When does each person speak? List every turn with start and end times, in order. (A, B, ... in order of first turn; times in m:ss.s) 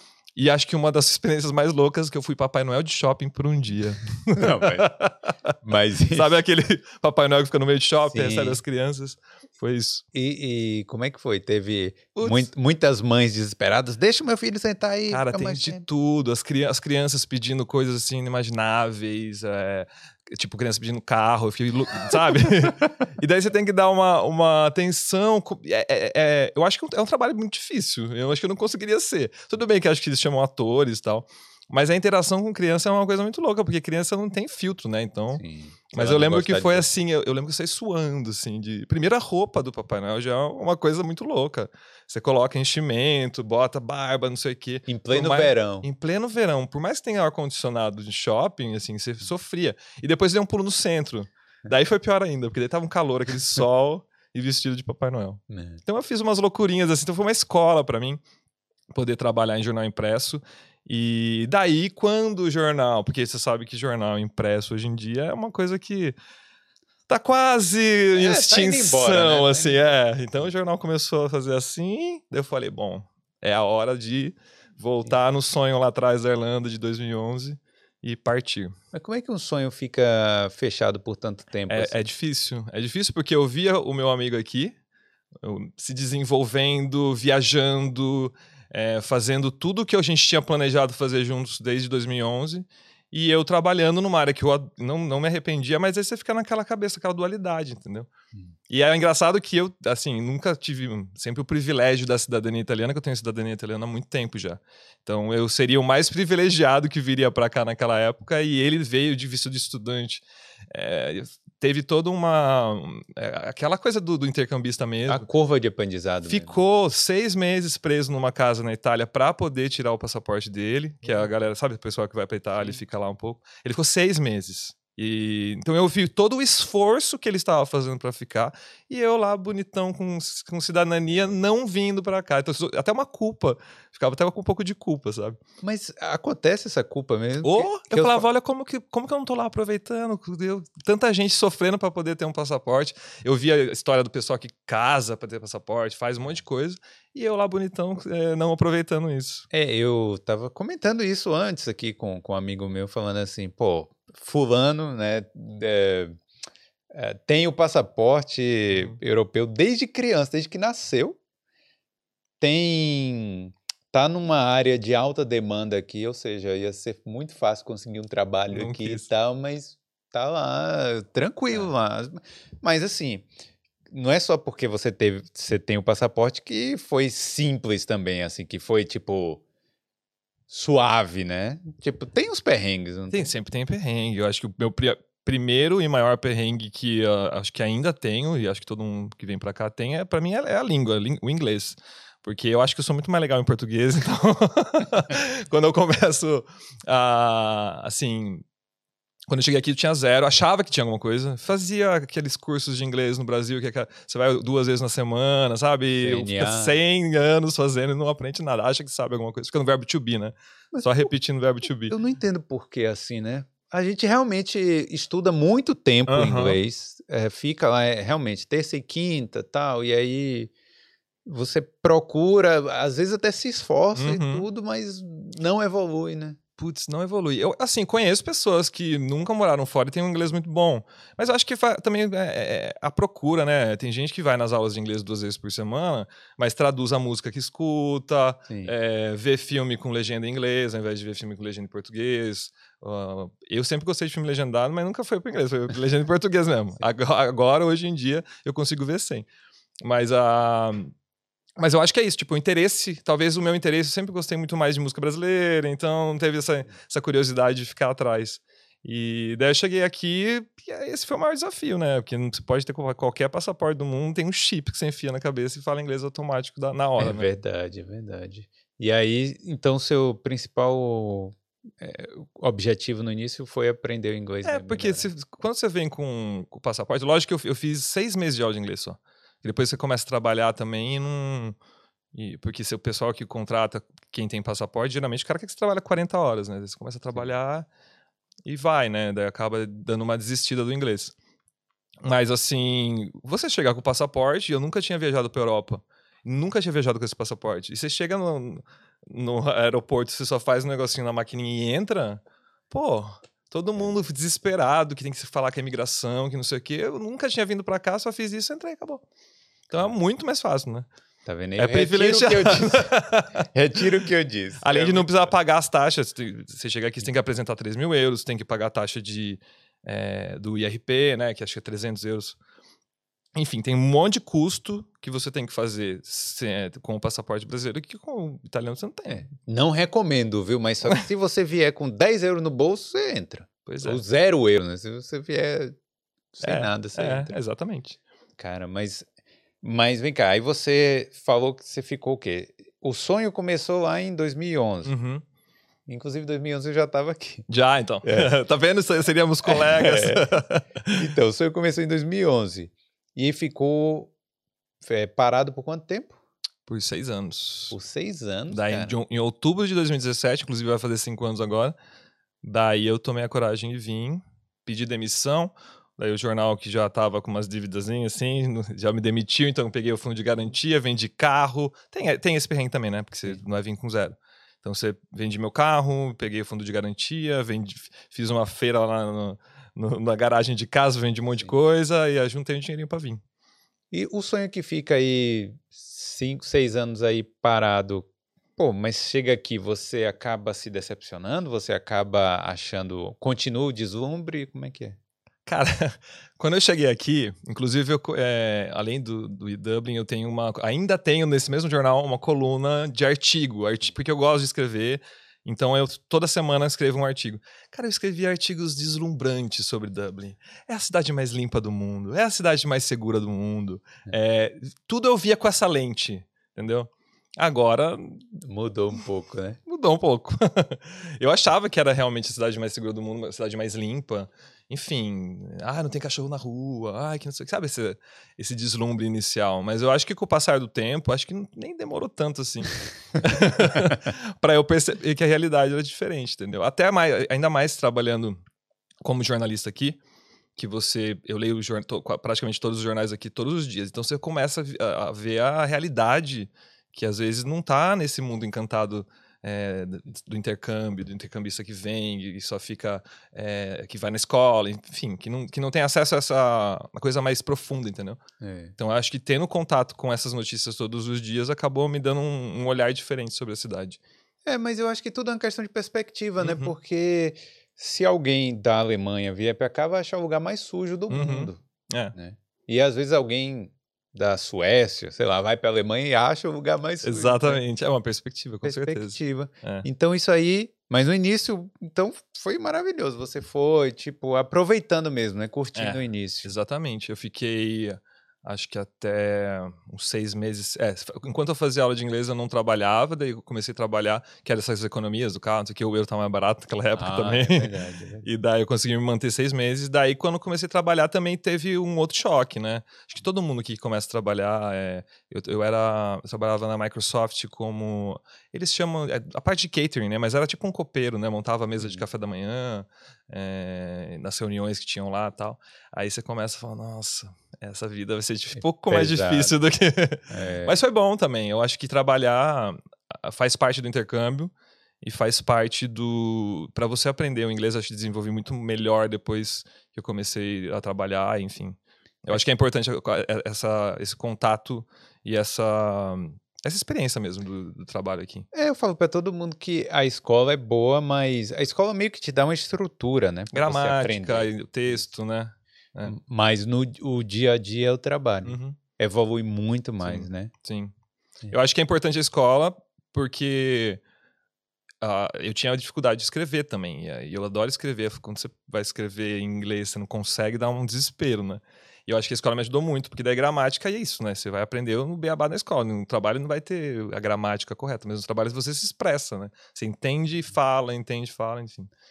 0:00.3-0:05.2 A
0:04.3-0:04.9 B
0:05.6-0:06.4 B
0:06.1-0:10.0 A
0:08.1-0:08.6 B
0:10.1-0:15.8 B
0:12.2-0:12.5 A
0:15.1-0:58.2 A
0:35.3-0:36.9 B
0:44.9-0:45.9 B
0:55.5-0:55.8 B
0:58.9-1:06.2 A
1:07.1-1:18.7 A
1:08.1-1:09.9 B
1:18.9-1:22.0 B
1:21.7-1:24.7 A
1:25.4-1:38.1 A
1:38.7-1:55.3 A
1:55.1-1:56.6 B
1:56.2-2:15.4 A
2:15.6-2:18.2 B
2:17.4-2:29.4 A
2:29.5-2:36.2 B
2:36.9-2:41.2 B
2:38.7-2:39.0 A
2:42.4-2:53.3 B
2:48.5-2:49.1 A
2:53.9-2:59.4 B
3:00.5-3:03.3 B
3:03.1-3:18.4 A
3:19.3-3:31.9 A
3:26.0-3:26.8 B
3:30.7-3:31.0 B
3:31.9-3:40.5 B
3:36.1-3:36.6 A
3:41.2-3:46.4 B
3:44.0-3:44.4 A
3:46.6-4:09.2 A
3:58.5-3:58.7 B
4:09.8-4:10.9 A
4:11.6-4:27.3 A
4:27.0-4:35.1 B
4:34.4-4:41.6 A
4:42.1-4:47.7 A
4:48.4-4:51.1 A
4:52.0-5:09.0 A
5:09.7-5:10.9 A
5:11.2-5:15.3 B
5:11.6-5:13.4 A
5:14.6-5:22.4 A
5:23.3-5:29.2 A
5:29.1-5:35.8 B
5:33.6-5:34.0 A
5:36.3-5:37.4 B
5:36.4-5:38.0 A
5:38.4-5:39.1 B
5:39.6-5:44.9 B
5:44.8-5:45.2 A
5:45.9-5:47.4 B
5:47.5-5:51.0 A
5:48.0-5:48.3 B
5:49.5-5:50.3 B
5:50.9-5:54.1 B
5:54.8-5:56.2 B
5:56.7-5:57.7 A
5:57.7-5:59.0 B
5:58.5-6:01.7 A
6:02.4-6:23.2 A
6:23.9-6:35.0 B
6:35.4-6:58.2 A
6:58.3-6:59.6 B
6:59.7-7:18.4 A
7:19.0-7:20.0 A
7:20.6-7:38.2 A
7:38.4-7:38.7 B
7:38.8-7:44.0 A
7:44.4-7:51.6 B
7:46.4-7:46.7 A
7:51.1-7:52.1 A
7:52.1-7:57.6 B
7:57.0-7:59.8 A
7:58.6-8:06.5 B
8:05.8-8:58.5 A
8:16.9-8:18.2 B
8:31.8-8:32.0 B
8:38.9-8:39.5 B
8:40.3-8:40.8 B
8:58.5-9:05.1 B
9:03.5-9:06.1 A
9:06.0-9:10.5 B
9:08.4-9:08.8 A
9:10.0-9:10.9 A
9:11.5-9:14.0 A
9:15.0-9:31.9 A